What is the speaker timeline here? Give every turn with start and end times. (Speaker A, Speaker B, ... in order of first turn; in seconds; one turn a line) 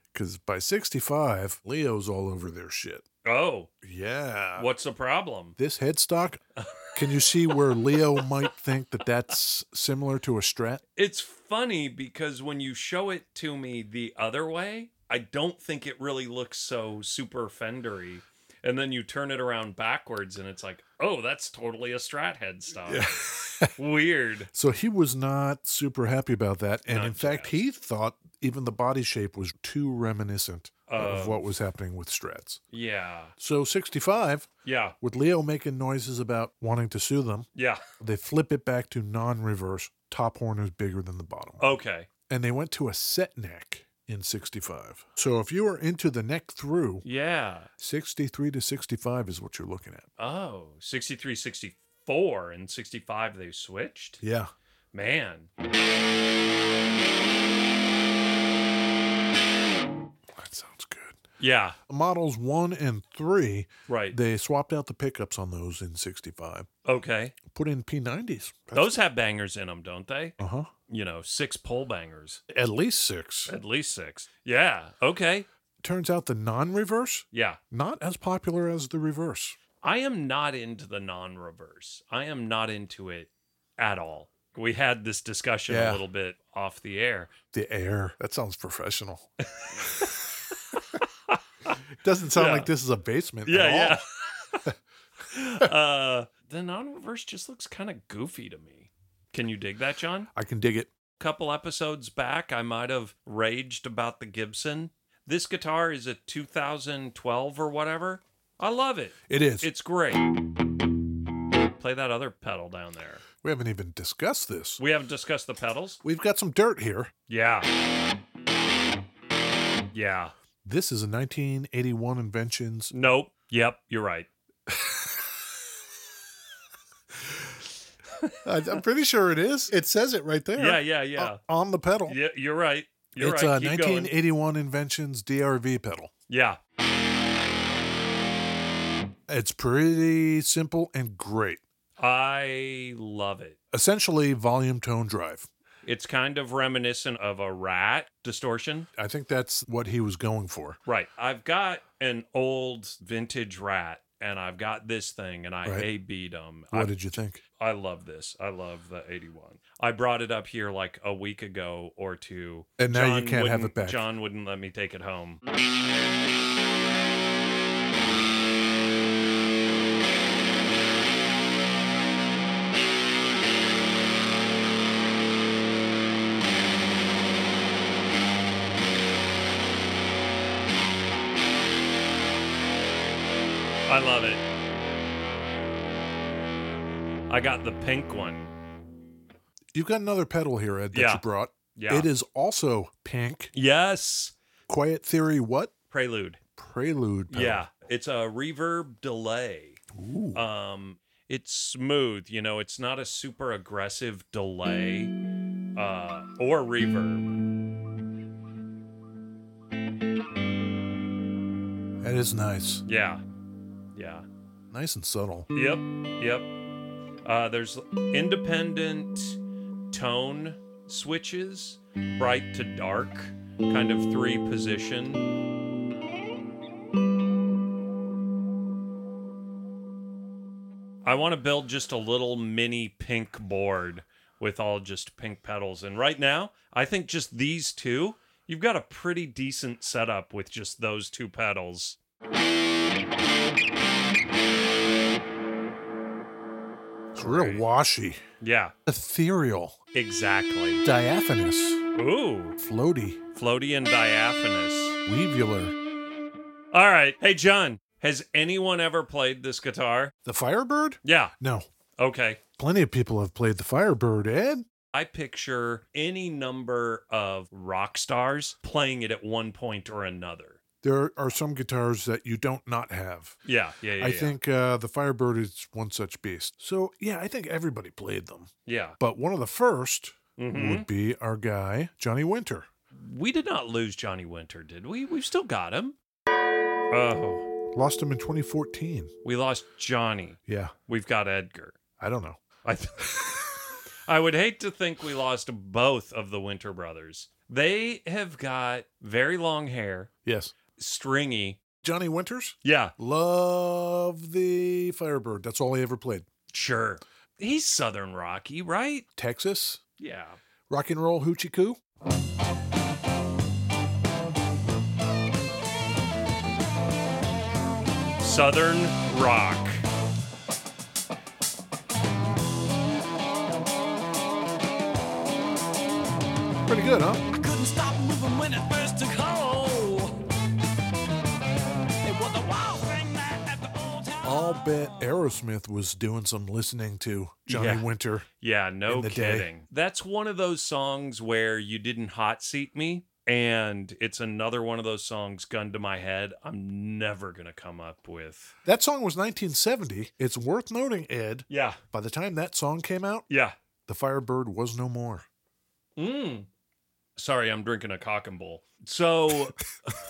Speaker A: 0.1-3.0
Speaker B: 3.2-3.7
Speaker A: 3.8-4.7
Speaker B: 4.6-5.5
Speaker A: 5.5-6.4
Speaker B: 6.5-8.5
Speaker A: 6.9-10.8
Speaker B: 10.9-24.5
Speaker A: 22.9-23.7
Speaker A: 24.5-32.6
Speaker B: 26.9-27.6
Speaker B: 30.9-31.4
Speaker B: 32.7-33.3
Speaker A: 33.4-34.5
Speaker B: 34.6-35.0
Speaker A: 35.0-37.5
Speaker B: 37.5-37.8
Speaker A: 38.0-41.7
Speaker B: 41.6-42.1
Speaker A: 42.3-47.0
Speaker B: 47.0-47.7
Speaker A: 47.8-50.1
Speaker B: 50.2-54.2
Speaker A: 54.2-54.5
Speaker B: 54.9-55.5
Speaker A: 60.4-61.2
Speaker B: 61.4-61.8
Speaker A: 61.9-66.7
Speaker B: 63.9-64.2
Speaker B: 66.8-67.3
Speaker A: 67.5-68.9
Speaker B: 68.7-70.4
Speaker A: 70.4-70.7
Speaker B: 70.9-72.4
Speaker A: 72.5-73.5
Speaker B: 73.5-75.5
Speaker A: 75.8-79.6
Speaker B: 77.3-77.6
Speaker B: 79.8-87.3
Speaker A: 85.7-86.0
Speaker A: 87.5-90.6
Speaker B: 89.8-90.0
Speaker B: 90.7-91.8
Speaker A: 92.0-94.0
Speaker B: 92.3-92.7
Speaker B: 93.5-94.6
Speaker B: 95.3-100.3
Speaker A: 100.3-100.9
Speaker B: 101.2-110.3
Speaker A: 109.3-109.7
Speaker B: 111.8-113.2
Speaker A: 113.4-114.8
Speaker B: 114.8-116.0
Speaker A: 116.0-117.1
Speaker B: 117.3-117.7
Speaker B: 119.9-120.3
Speaker A: 120.6-122.9
Speaker B: 122.9-124.3
Speaker A: 124.7-125.3
Speaker A: 128.4-132.2
Speaker B: 130.6-131.4
Speaker B: 132.1-134.1
Speaker A: 133.2-136.1
Speaker B: 136.3-136.6
Speaker A: 139.3-141.6
Speaker B: 142.0-143.6
Speaker A: 143.7-145.5
Speaker B: 145.8-148.9
Speaker A: 148.9-150.8
Speaker B: 150.8-156.9
Speaker A: 156.7-157.4
Speaker B: 157.6-165.4
Speaker A: 162.8-164.0
Speaker B: 183.9-184.4
Speaker B: 187.3-188.5
Speaker A: 189.7-193.5
Speaker B: 190.9-191.2
Speaker B: 191.7-192.1
Speaker B: 193.5-194.3
Speaker A: 194.7-195.7
Speaker B: 195.9-196.4
Speaker A: 196.6-197.7
Speaker B: 197.3-199.8
Speaker A: 199.9-200.4
Speaker B: 200.3-205.1
Speaker B: 205.7-207.3
Speaker A: 212.0-212.8
Speaker B: 212.8-213.2
Speaker B: 213.9-214.2
Speaker A: 214.7-215.5
Speaker B: 215.5-216.5
Speaker B: 217.2-225.2
Speaker B: 231.0-242.0
Speaker B: 247.1-247.6
Speaker A: 247.1-248.2
Speaker B: 248.4-248.7
Speaker A: 248.8-249.8
Speaker B: 249.9-250.8
Speaker A: 250.8-251.8
Speaker B: 251.9-252.6
Speaker A: 252.6-253.2
Speaker B: 253.3-255.0
Speaker A: 255.1-255.7
Speaker B: 256.7-260.1
Speaker A: 260.2-261.6
Speaker B: 261.0-261.3
Speaker B: 262.0-262.4
Speaker A: 262.6-264.7
Speaker B: 264.9-270.6
Speaker A: 270.8-273.4
Speaker B: 273.4-274.4
Speaker A: 274.0-282.7
Speaker B: 278.6-279.0
Speaker B: 280.4-280.9
Speaker B: 282.9-285.9
Speaker B: 286.9-287.5
Speaker A: 287.7-289.1
Speaker B: 289.2-291.8
Speaker A: 290.5-290.7
Speaker A: 292.0-292.4
Speaker B: 292.6-300.1
Speaker A: 300.2-300.5
Speaker B: 300.8-301.6
Speaker A: 301.8-306.3
Speaker B: 302.6-302.9
Speaker B: 306.5-309.1
Speaker A: 309.1-309.8
Speaker B: 310.0-310.4
Speaker A: 310.7-311.8
Speaker B: 318.2-319.8
Speaker A: 326.7-327.2
Speaker C: 327.3-330.2
Speaker C: 332.0-334.8
Speaker A: 334.2-338.3
Speaker B: 337.5-348.5
Speaker A: 338.9-339.5
Speaker A: 348.6-353.2
Speaker B: 351.5-351.8
Speaker B: 353.3-353.6
Speaker A: 353.9-355.2
Speaker B: 355.9-356.5
Speaker B: 357.1-359.6